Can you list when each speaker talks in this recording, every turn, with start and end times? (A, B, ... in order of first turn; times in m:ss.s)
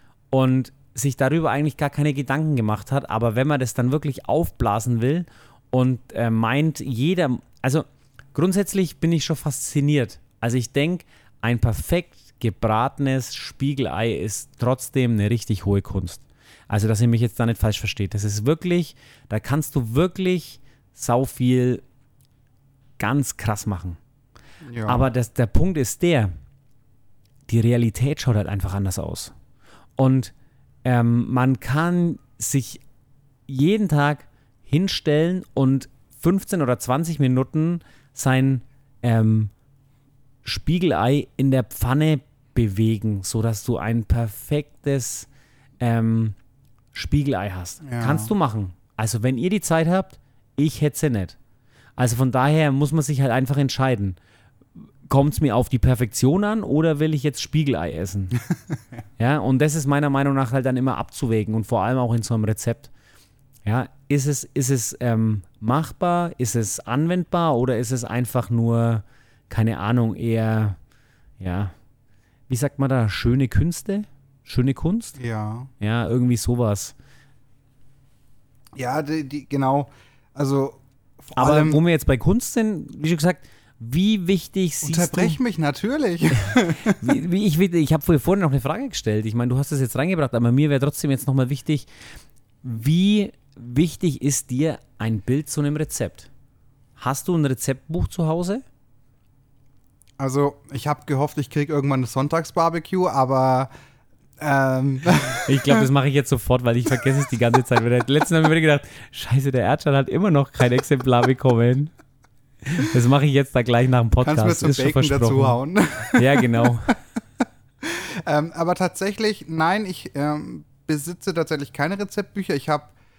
0:00.3-0:21.8 A
0:23.0-0:24.0 A
0:24.6-0:25.1 B
0:24.8-0:26.3 A
0:27.5-0:29.3 A
0:30.0-0:30.3 A
0:30.8-0:32.8 A
0:33.5-0:39.5 A
0:40.4-0:45.3 A
0:45.8-0:46.4 A
0:46.9-0:51.4 A
0:47.8-0:48.3 B
0:52.0-0:54.2 A
0:55.1-0:58.4 A
0:59.2-1:02.9 A
1:03.6-1:10.8 A
1:11.4-1:11.7 A
1:12.5-1:15.2 A
1:15.2-1:15.7 B
1:15.8-1:17.0 A
1:18.8-1:21.8 B
1:21.4-1:25.4 A
1:24.8-1:27.0 B
1:26.4-1:31.9 A
1:32.6-1:36.3 A
1:37.0-1:38.6 A
1:40.2-1:43.7 B
1:44.4-1:45.9 B
1:45.4-1:51.9 A
1:52.6-1:55.6 A
1:54.2-1:56.7 B
1:56.2-1:57.0 A
1:57.8-2:02.9 B